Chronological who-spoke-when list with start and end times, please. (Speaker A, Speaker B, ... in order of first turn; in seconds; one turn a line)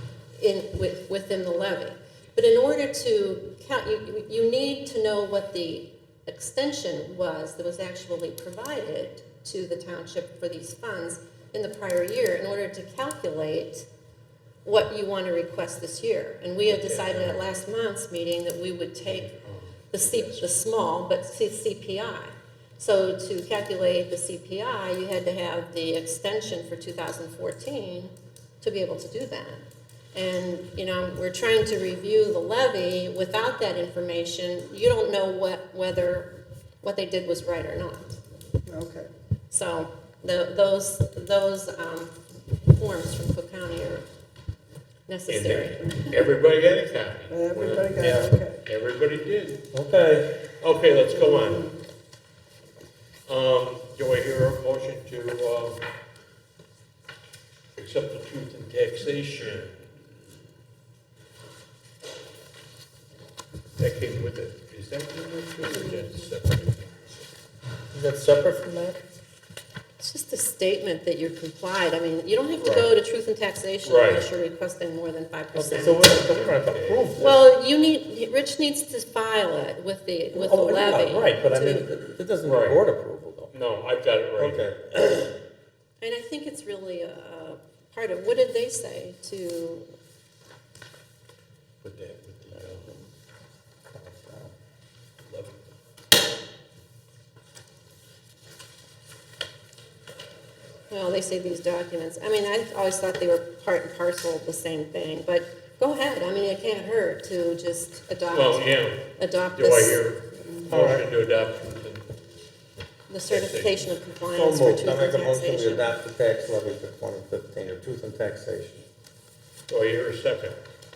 Speaker A: 0.4-13.9
Speaker A: 14.7-19.3
Speaker B: 16.7-17.4
Speaker B: 19.1-20.5
Speaker A: 19.9-38.2
Speaker C: 38.7-39.1
Speaker A: 39.5-44.1
Speaker A: 45.1-46.2
Speaker B: 45.3-48.1
Speaker C: 47.3-48.6
Speaker D: 47.8-48.3
Speaker B: 48.6-49.7
Speaker D: 49.7-50.5
Speaker B: 50.5-51.8
Speaker C: 51.4-51.6
Speaker B: 53.3-55.8
Speaker B: 57.8-59.9
Speaker B: 63.8-67.3
Speaker D: 67.9-69.0
Speaker A: 70.0-76.2
Speaker B: 72.6-72.9
Speaker B: 73.8-74.3
Speaker D: 75.6-77.4
Speaker B: 75.7-77.2
Speaker A: 77.2-81.9
Speaker D: 80.3-83.5
Speaker B: 82.5-82.8
Speaker B: 83.5-84.7
Speaker D: 84.4-85.3
Speaker A: 86.0-89.9
Speaker B: 91.8-92.9
Speaker D: 93.9-94.5
Speaker B: 95.3-95.6
Speaker A: 100.9-110.0
Speaker B: 108.3-112.2
Speaker D: 110.7-111.1
Speaker A: 113.1-115.9
Speaker B: 113.3-113.9
Speaker D: 114.3-118.9
Speaker B: 119.7-120.6